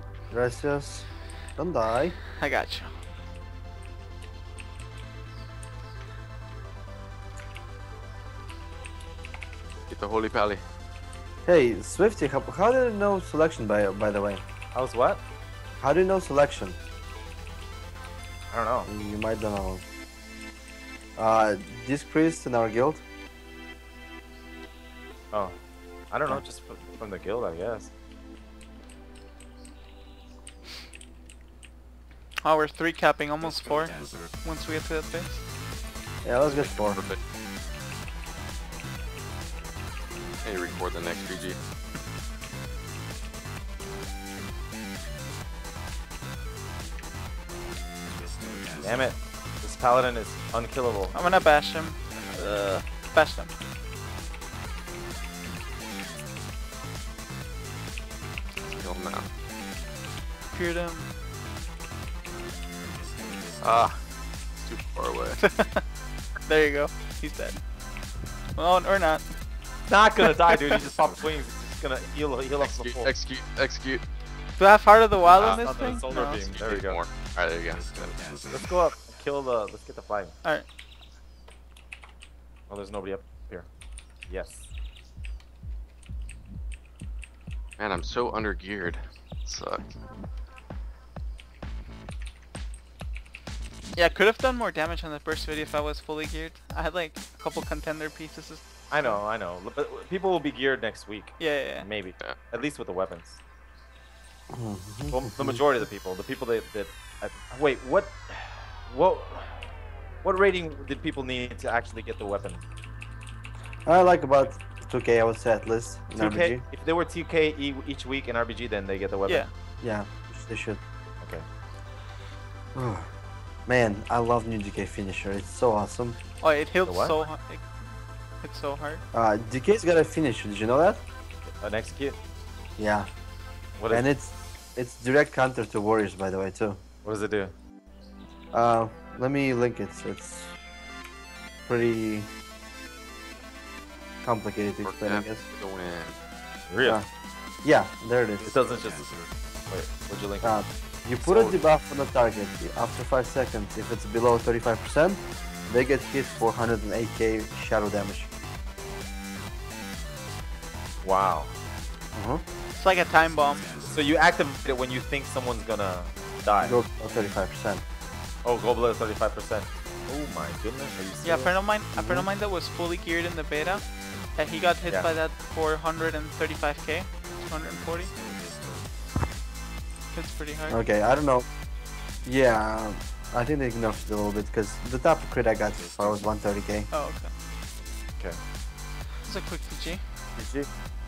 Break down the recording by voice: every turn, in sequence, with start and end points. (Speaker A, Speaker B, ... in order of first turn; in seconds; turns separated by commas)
Speaker A: 0.3-2.2, Speaker B: 2.4-2.9, Speaker C: 9.9-10.6, Speaker A: 11.4-14.4, Speaker D: 14.7-15.2, Speaker A: 15.8-16.8, Speaker D: 18.5-18.9, Speaker A: 18.9-19.8, Speaker A: 21.1-23.0, Speaker D: 25.3-25.6, Speaker D: 26.1-27.9, Speaker B: 32.4-35.4, Speaker A: 36.2-37.0, Speaker C: 36.4-37.2, Speaker C: 40.4-41.6, Speaker D: 48.8-51.2, Speaker B: 51.1-53.5, Speaker C: 58.7-59.3, Speaker B: 60.5-61.1, Speaker C: 63.6-64.0, Speaker C: 64.6-65.4, Speaker B: 65.4-65.8, Speaker B: 66.4-67.6, Speaker B: 68.5-69.2, Speaker D: 69.9-73.1, Speaker C: 72.6-74.0, Speaker B: 74.6-76.5, Speaker D: 75.3-77.0, Speaker C: 75.4-75.7, Speaker C: 76.5-78.2, Speaker D: 78.5-80.3, Speaker B: 80.4-80.7, Speaker D: 82.7-83.7, Speaker D: 84.3-84.7, Speaker C: 87.8-90.0, Speaker B: 93.9-98.6, Speaker D: 98.9-103.4, Speaker B: 101.4-101.9, Speaker A: 104.5-105.6, Speaker D: 105.1-109.7, Speaker D: 110.2-112.6, Speaker A: 113.8-116.6, Speaker D: 116.1-119.5, Speaker A: 119.8-120.8, Speaker D: 121.2-121.5, Speaker A: 122.7-123.1, Speaker A: 123.7-126.2, Speaker B: 126.4-127.7, Speaker D: 126.8-127.2, Speaker B: 128.4-129.0, Speaker A: 129.1-131.0, Speaker D: 131.6-132.2, Speaker A: 132.8-133.1, Speaker D: 133.8-134.1, Speaker A: 133.9-136.8, Speaker D: 137.0-137.5, Speaker A: 138.5-140.5, Speaker A: 141.7-142.3, Speaker A: 144.2-145.4, Speaker C: 144.8-146.2, Speaker D: 146.7-147.0, Speaker A: 147.6-148.6, Speaker D: 148.4-149.2, Speaker D: 149.7-150.6, Speaker A: 150.4-158.3, Speaker C: 151.2-151.6, Speaker D: 161.0-161.5, Speaker A: 162.1-162.4, Speaker B: 162.8-163.7, Speaker D: 163.8-166.8, Speaker A: 166.6-167.8, Speaker D: 168.4-171.6, Speaker B: 171.2-178.1, Speaker A: 171.9-172.3, Speaker B: 180.1-180.8, Speaker A: 180.7-181.4, Speaker A: 182.2-186.9, Speaker B: 186.9-187.3, Speaker B: 189.2-190.0, Speaker D: 190.3-190.7